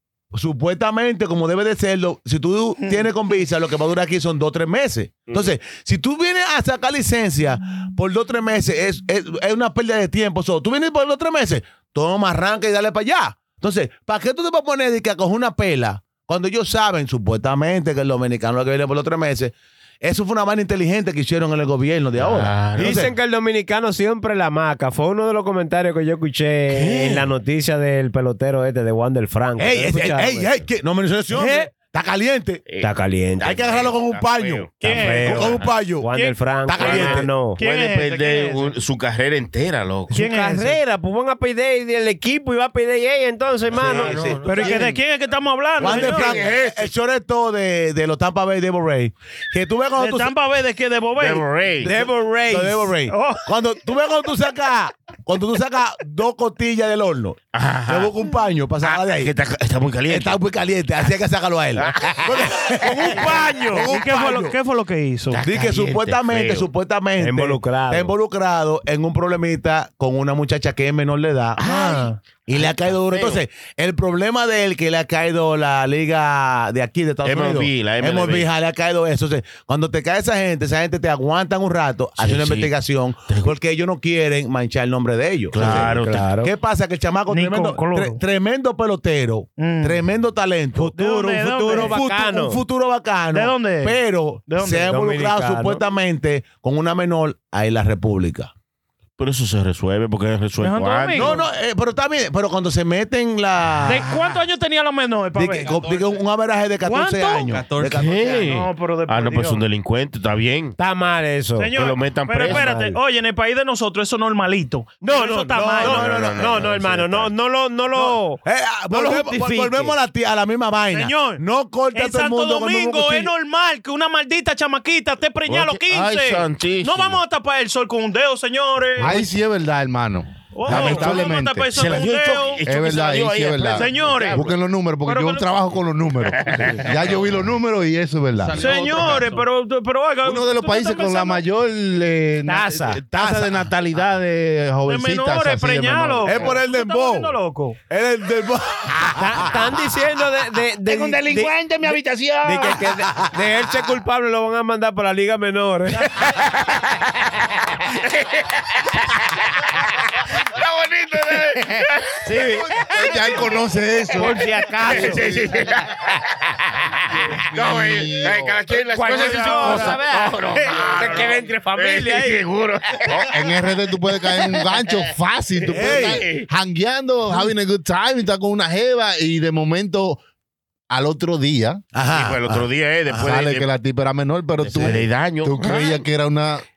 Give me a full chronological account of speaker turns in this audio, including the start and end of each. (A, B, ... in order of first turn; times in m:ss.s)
0:00.3-0:23.1 A
0:02.8-0:03.1 B
0:22.2-0:23.1 C
0:22.8-0:30.5 D
0:26.7-0:27.2 C
0:29.6-0:32.6 A
0:31.4-0:31.6 D
0:32.8-0:33.5 D
0:33.4-0:35.7 C
0:33.4-0:36.1 A
0:34.8-0:35.6 B
0:34.8-0:37.6 D
0:36.1-0:36.4 B
0:36.6-0:37.3 A
0:36.8-0:40.2 C
0:37.6-0:38.7 B
0:40.1-0:44.7 D
0:40.1-0:40.8 B
0:43.8-0:44.9 A
0:43.8-0:44.8 C
0:44.4-0:46.4 B
0:45.8-0:50.3 A
0:45.8-0:46.9 C
0:50.0-0:51.6 B
0:51.2-0:51.9 C
0:51.8-0:52.9 D
0:51.8-0:59.3 A
0:53.1-0:53.5 B
0:57.5-0:58.1 C
0:58.8-1:00.4 C
1:00.1-1:04.5 A
1:01.8-1:02.5 C
1:02.8-1:05.4 B
1:05.3-1:06.7 C
1:05.4-1:11.8 A
1:07.2-1:08.1 D
1:11.6-1:13.4 C
1:11.6-1:12.2 B
1:12.4-1:38.5 A
1:17.2-1:18.5 C
1:22.2-1:22.7 C
1:23.3-1:23.5 C
1:25.5-1:26.2 C
1:25.5-1:26.5 D
1:27.3-1:28.2 B
1:29.6-1:30.0 B
1:30.8-1:32.6 D
1:30.8-1:32.0 B
1:33.3-1:34.9 B
1:34.8-1:35.8 D
1:39.2-1:41.3 C
1:40.6-1:41.5 B
1:41.2-1:44.2 A
1:43.8-1:46.0 B
1:45.3-1:48.5 A
1:46.8-1:47.6 B
1:47.8-1:50.8 C
1:48.3-1:49.6 B
1:50.8-1:51.8 D
1:51.6-1:56.0 B
1:51.7-1:52.7 C
1:52.4-1:53.0 D
1:55.0-1:59.9 D
1:55.5-1:56.6 A
1:55.8-1:57.3 C
1:58.4-2:03.3 A
2:00.9-2:01.4 B
2:01.9-2:09.2 B
2:05.5-2:07.2 C
2:09.0-2:12.1 E
2:10.5-2:12.6 B
2:10.7-2:14.5 C
2:12.6-2:18.8 E
2:13.7-2:14.4 B
2:15.0-2:15.5 B
2:16.3-2:17.2 C
2:18.5-2:21.4 B
2:20.2-2:26.5 E
2:22.5-2:23.0 D
2:23.2-2:23.5 A
2:24.9-2:27.8 B
2:26.2-2:27.4 A
2:27.9-2:29.8 A
2:29.2-2:31.5 D
2:30.8-2:32.8 E
2:32.4-2:36.5 D
2:38.0-2:39.4 C
2:40.4-2:42.2 C
2:42.2-2:42.7 D
2:42.7-2:45.7 E
2:44.2-2:45.2 D
2:44.2-2:45.2 B
2:44.9-2:46.5 C
2:47.3-2:48.6 E
2:47.5-2:53.2 C
2:48.9-2:52.4 D
2:49.1-2:50.0 B
2:53.1-3:00.2 E
2:54.4-2:55.0 C
2:55.6-2:56.5 C
2:55.7-2:56.3 A
3:00.9-3:01.8 E
3:01.9-3:03.3 A
3:02.1-3:03.7 C
3:03.1-3:06.6 E
3:04.6-3:06.0 C